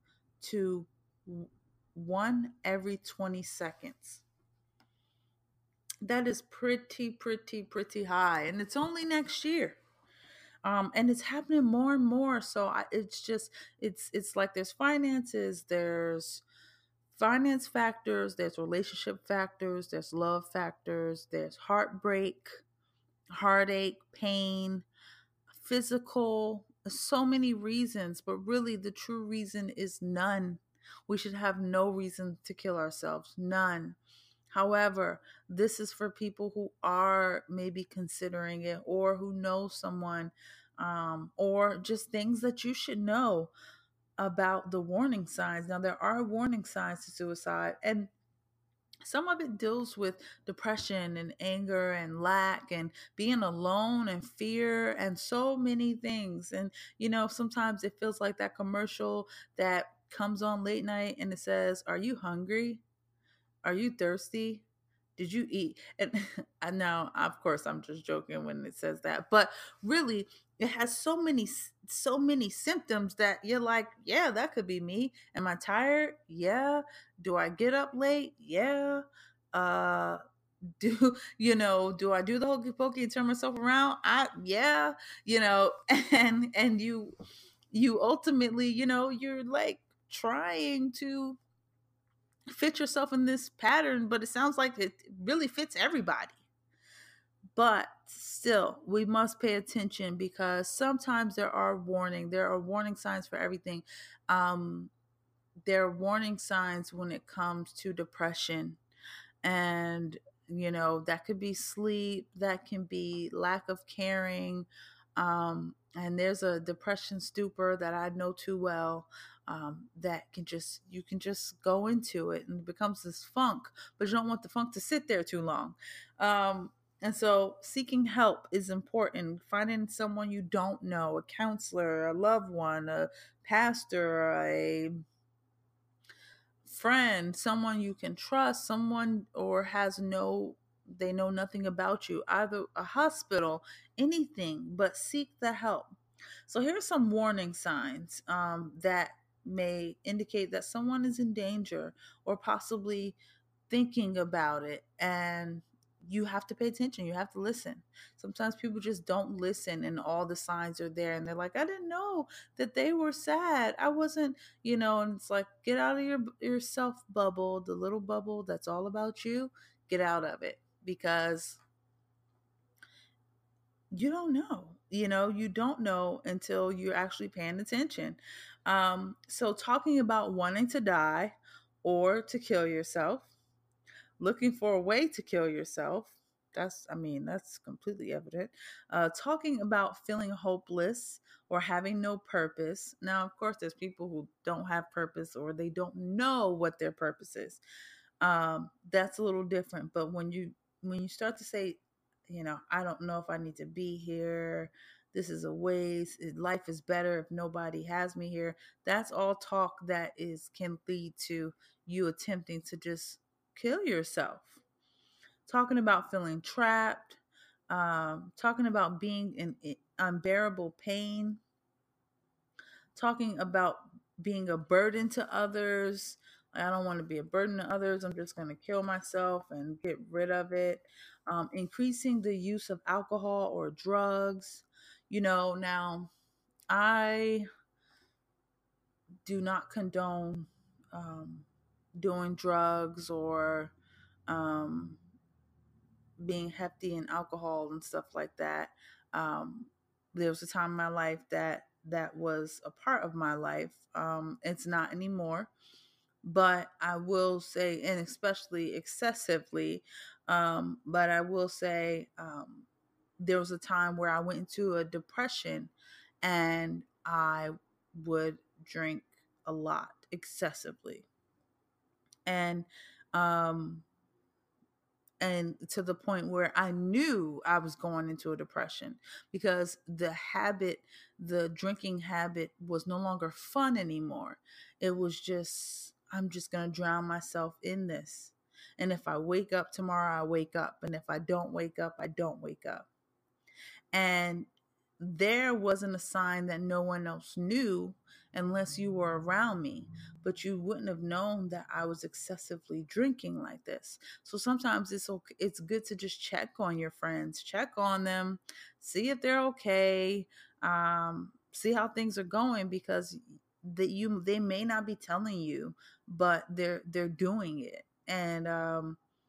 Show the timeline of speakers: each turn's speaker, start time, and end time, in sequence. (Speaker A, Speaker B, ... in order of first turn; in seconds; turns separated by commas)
Speaker A: 0.4-4.2, Speaker A: 6.0-9.8, Speaker A: 10.6-16.4, Speaker A: 17.1-22.6, Speaker A: 23.3-24.8, Speaker A: 25.5-34.0, Speaker A: 34.5-43.5, Speaker A: 44.2-48.1, Speaker A: 49.0-62.8, Speaker A: 63.6-64.6, Speaker A: 65.2-79.0, Speaker A: 79.5-80.2, Speaker A: 80.8-87.1, Speaker A: 87.7-91.4, Speaker A: 92.5-96.4, Speaker A: 97.5-104.9, Speaker A: 105.7-108.8, Speaker A: 109.4-134.9, Speaker A: 136.6-153.2, Speaker A: 153.7-171.6, Speaker A: 173.9-183.3, Speaker A: 184.2-197.6, Speaker A: 198.2-214.6, Speaker A: 215.5-221.4, Speaker A: 222.9-236.1, Speaker A: 236.7-237.4, Speaker A: 239.2-243.7, Speaker A: 244.3-245.0, Speaker A: 246.2-255.5, Speaker A: 256.2-262.7, Speaker A: 263.2-271.1, Speaker A: 272.2-273.8, Speaker A: 275.2-292.9, Speaker A: 293.9-294.5, Speaker A: 295.0-319.0